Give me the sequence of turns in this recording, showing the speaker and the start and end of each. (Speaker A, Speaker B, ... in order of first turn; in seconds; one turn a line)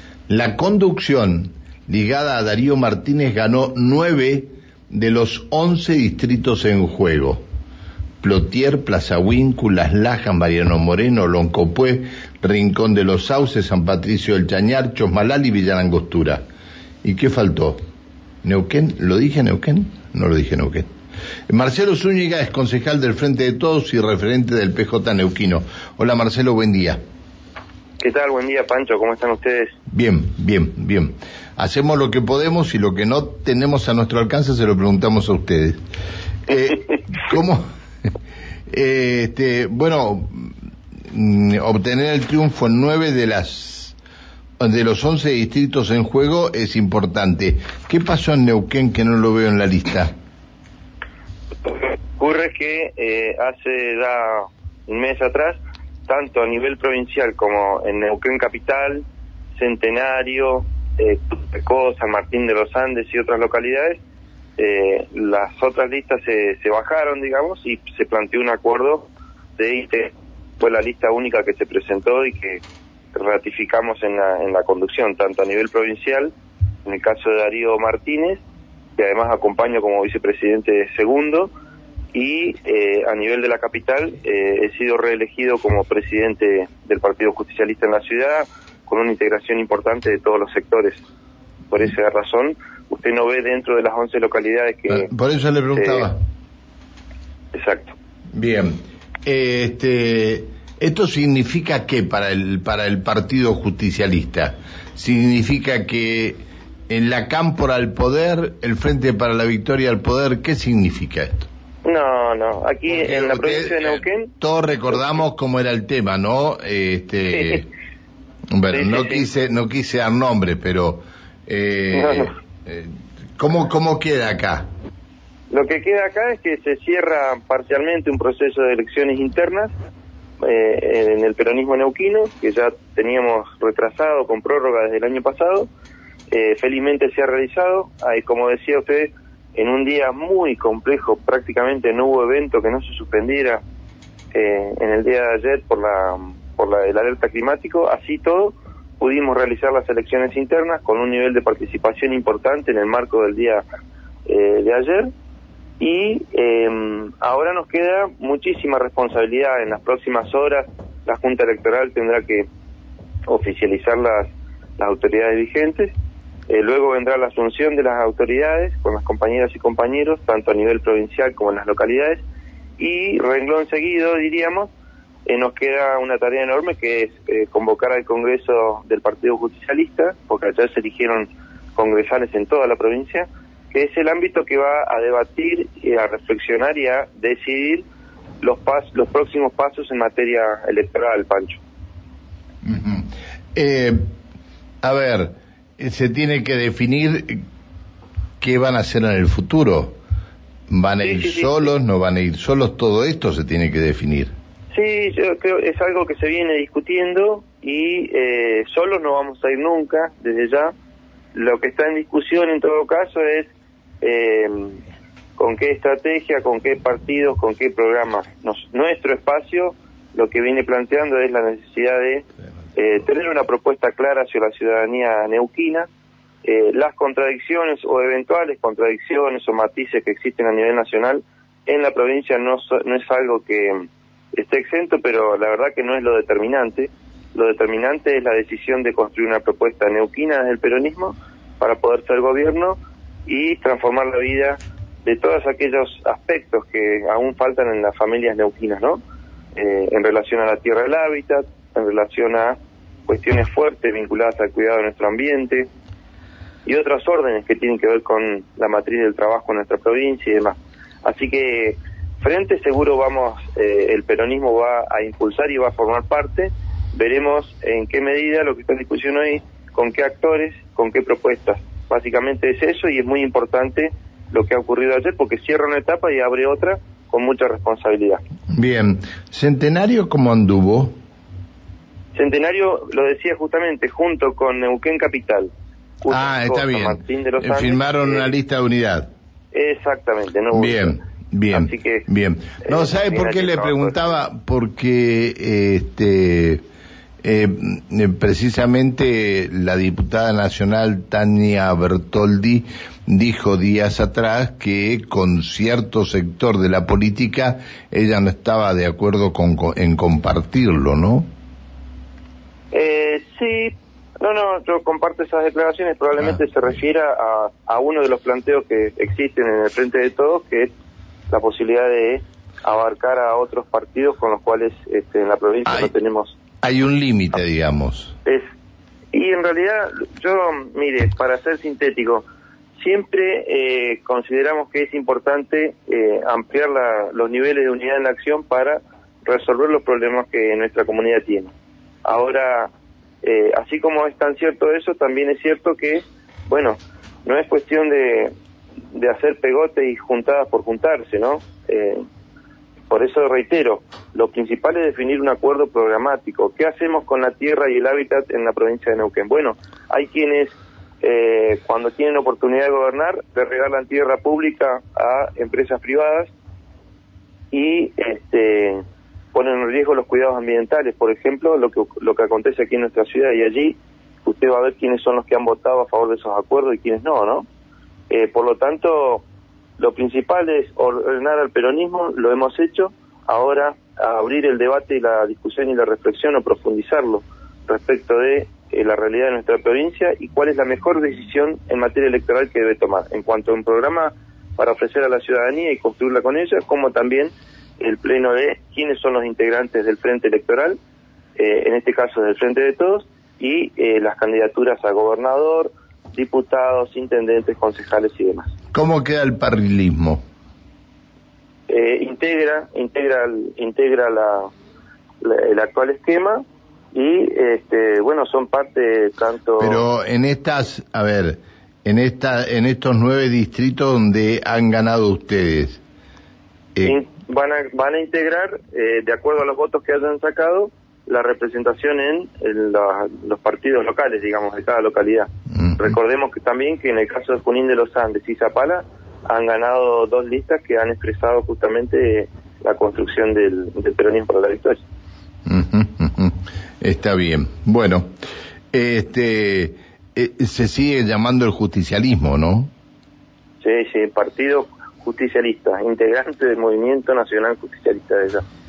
Speaker A: 0.3-7.4
Speaker A: 8.2-16.4
Speaker A: 17.0-17.8
Speaker A: 18.4-20.9
Speaker A: 21.5-27.0
Speaker B: 28.0-29.7
Speaker A: 29.9-35.8
Speaker A: 36.5-37.6
Speaker A: 38.7-40.5
Speaker A: 41.1-44.0
Speaker A: 44.6-50.1
Speaker B: 51.6-59.0
Speaker B: 59.5-64.0
Speaker B: 64.6-72.6
Speaker B: 73.1-76.3
Speaker B: 76.8-78.4
Speaker B: 79.0-81.5
Speaker B: 82.1-91.0
Speaker B: 91.7-95.1
Speaker A: 94.9-96.2
Speaker B: 95.7-96.1
Speaker B: 97.5-97.9
Speaker A: 98.3-111.5
Speaker B: 111.8-114.3
Speaker A: 112.9-117.7
Speaker B: 117.3-117.6
Speaker A: 118.5-124.7
Speaker B: 118.7-119.2
Speaker B: 121.9-122.3
Speaker B: 125.5-129.7
Speaker B: 130.4-135.7
Speaker B: 136.3-143.6
Speaker B: 144.3-153.6
Speaker B: 154.2-155.1
Speaker B: 155.8-162.5
Speaker B: 163.3-165.9
Speaker B: 166.5-172.2
Speaker B: 172.8-174.7
Speaker B: 175.2-187.8
Speaker B: 188.4-191.6
Speaker A: 192.6-194.0
Speaker A: 194.8-197.4
Speaker A: 198.4-199.9
Speaker A: 200.7-204.3
Speaker B: 201.0-201.7
Speaker B: 204.7-210.7
Speaker B: 211.3-213.5
Speaker B: 214.0-214.8
Speaker B: 215.4-222.2
Speaker B: 222.8-225.9
Speaker B: 226.4-249.0
Speaker B: 249.6-255.7
Speaker B: 256.6-278.2
Speaker A: 278.5-280.9
Speaker B: 282.1-285.5
Speaker B: 286.0-288.3
Speaker A: 286.1-289.1
Speaker B: 289.5-291.0
Speaker A: 290.5-296.6
Speaker B: 291.5-292.1
Speaker B: 292.6-294.1
Speaker A: 297.2-311.3
Speaker B: 312.7-320.7
Speaker B: 321.3-326.4
Speaker A: 326.6-328.1
Speaker B: 329.1-332.2
Speaker B: 332.8-341.5
Speaker B: 342.0-342.7
Speaker B: 343.2-348.3
Speaker B: 348.9-352.0
Speaker B: 352.9-366.3
Speaker B: 367.5-368.8
Speaker B: 369.3-377.4
Speaker B: 378.1-379.2
Speaker B: 379.8-400.8
Speaker B: 401.4-408.5
Speaker A: 408.7-410.2
Speaker B: 411.7-414.5
Speaker B: 415.2-419.8
Speaker A: 419.6-425.8
Speaker B: 426.8-444.8
Speaker A: 445.5-448.1
Speaker A: 448.7-452.7
Speaker B: 453.6-458.4